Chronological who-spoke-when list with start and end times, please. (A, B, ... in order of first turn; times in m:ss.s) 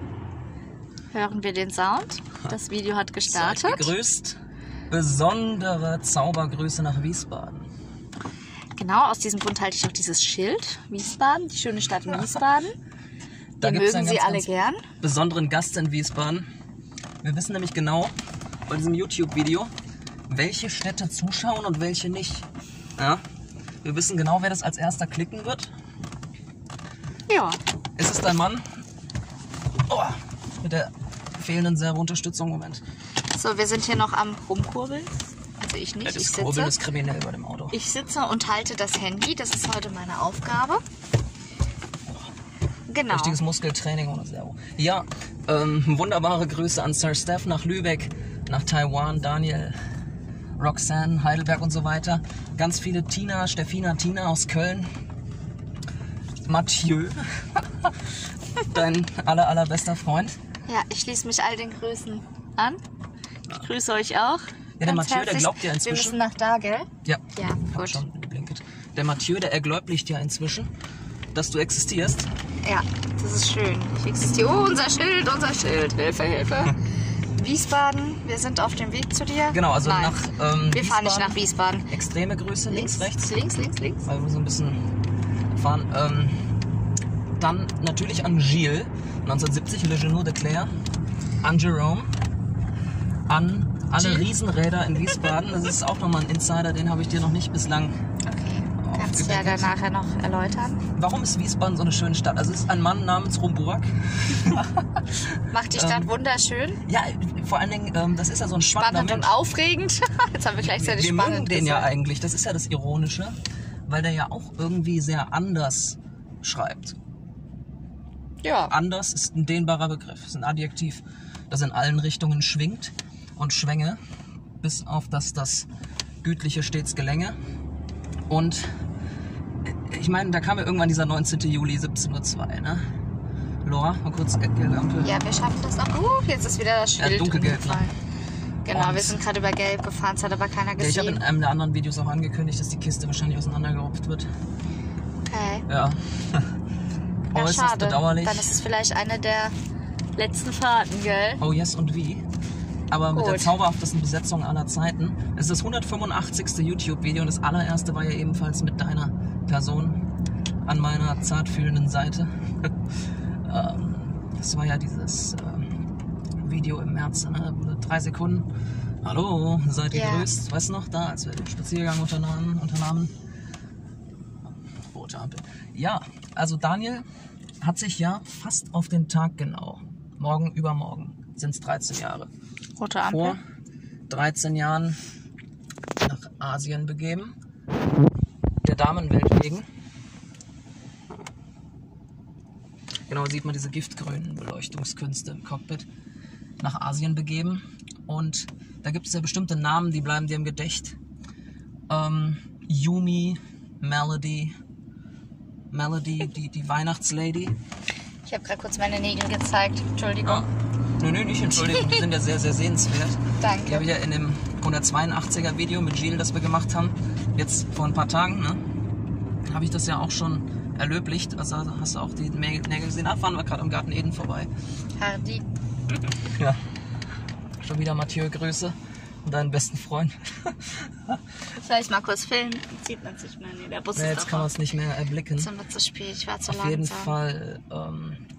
0:01.1-0:03.9 A
0:03.3-0:07.7 B
0:08.7-0:12.8 A
0:13.6-0:14.5 B
0:13.6-0:14.8 A
0:15.0-0:16.4 B
0:17.2-0:18.1 B
0:18.7-0:19.7 B
0:20.3-0:23.2 B
0:23.8-0:25.7 B
0:27.3-0:27.6 A
0:28.0-0:28.6 B
0:29.9-0:32.8 B
0:33.3-0:36.7 A
0:36.0-0:37.8 B
0:37.7-0:40.8 A
0:42.9-0:43.4 A
0:43.1-0:49.8 B
0:50.6-0:54.9 B
0:56.4-0:57.9 B
0:58.7-1:00.4 B
1:00.7-1:02.8 A
1:03.5-1:08.0 A
1:04.8-1:06.2 B
1:07.0-1:10.7 B
1:11.3-1:12.3 B
1:12.6-1:16.8 A
1:17.4-1:21.9 A
1:19.5-1:21.4 B
1:21.9-1:23.3 B
1:22.7-1:24.0 A
1:24.0-1:24.8 B
1:25.5-1:26.4 B
1:27.4-1:30.7 B
1:31.4-1:32.1 B
1:33.3-1:38.0 B
1:34.0-1:34.3 A
1:38.2-1:40.8 A
1:38.8-1:39.7 B
1:41.0-1:45.2 B
1:45.5-1:46.8 A
1:45.7-1:46.1 B
1:46.9-1:49.3 B
1:48.8-1:51.9 A
1:50.6-1:57.0 B
1:58.4-1:58.7 A
1:58.7-2:04.0 B
2:04.6-2:05.7 B
2:06.2-2:07.4 B
2:08.3-2:08.7 B
2:09.6-2:12.8 B
2:13.6-2:15.2 B
2:15.0-2:17.9 A
2:17.0-2:17.8 B
2:18.6-2:21.2 A
2:18.7-2:19.2 B
2:20.8-2:24.3 B
2:25.2-2:25.6 A
2:25.7-2:26.5 B
2:27.3-2:28.5 B
2:27.3-2:29.5 A
2:30.2-2:31.4 A
2:31.4-2:32.2 B
2:32.9-2:40.0 B
2:33.1-2:33.5 A
2:40.6-2:42.7 B
2:43.4-2:45.7 B
2:46.4-2:48.5 B
2:49.0-2:53.1 B
2:49.9-2:50.3 A
2:54.9-2:57.0 B
2:57.6-3:02.3 B
3:02.8-3:03.4 A
3:03.1-3:03.4 B
3:04.1-3:05.0 B
3:06.0-3:07.3 B
3:08.6-3:09.7 B
3:13.1-3:15.9 B
3:16.6-3:21.0 B
3:21.9-3:24.5 B
3:25.7-3:27.6 B
3:28.2-3:30.5 A
3:31.0-3:38.6 B
3:31.7-3:32.0 A
3:33.4-3:33.8 A
3:39.4-3:44.5 B
3:45.0-3:45.4 A
3:46.3-3:46.6 B
3:47.6-3:51.2 B
3:51.6-3:54.5 A
3:54.0-3:55.5 B
3:55.4-3:57.1 A
3:56.5-3:58.2 B